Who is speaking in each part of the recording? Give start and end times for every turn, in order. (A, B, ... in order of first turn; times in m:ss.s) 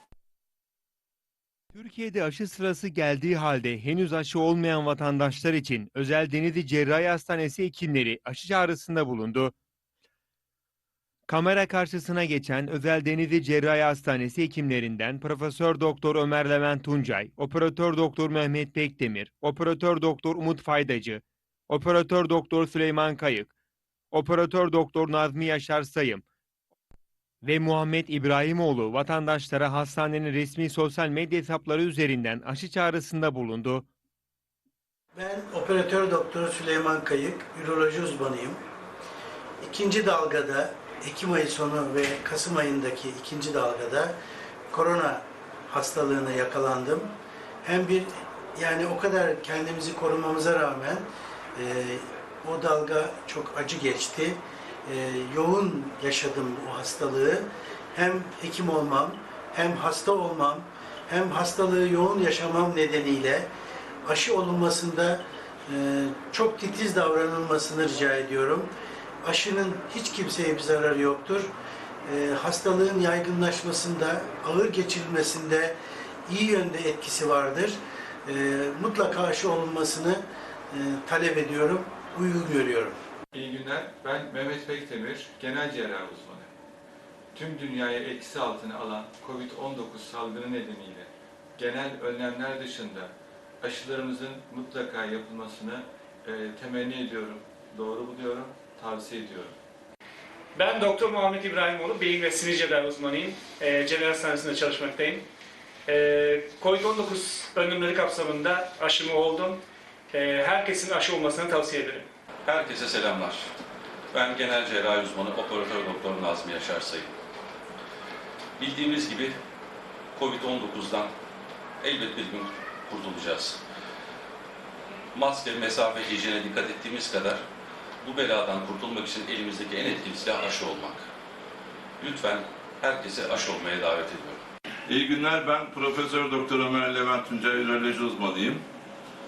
0:01.7-0:09.5 A
0:11.3-0:23.5 A
0:24.1-0:26.2 A
0:27.4-0:33.9 A
0:35.2-0:38.6 B
0:39.6-0:44.2 B
0:44.7-0:47.1 B
0:47.6-1:03.5 B
1:04.0-1:08.7 B
1:09.2-1:11.5 B
1:12.0-1:15.8 B
1:16.3-1:23.0 B
1:23.3-1:26.5 C
1:27.4-1:39.6 C
1:40.6-1:45.3 D
1:45.9-1:49.6 D
1:50.1-1:52.1 D
1:52.5-1:53.5 E
1:54.1-1:57.1 E
1:58.6-1:59.4 E
2:00.2-2:01.1 E
2:01.8-2:03.6 E
2:05.2-2:07.4 E
2:08.0-2:11.1 E
2:12.0-2:14.4 E
2:14.9-2:18.6 F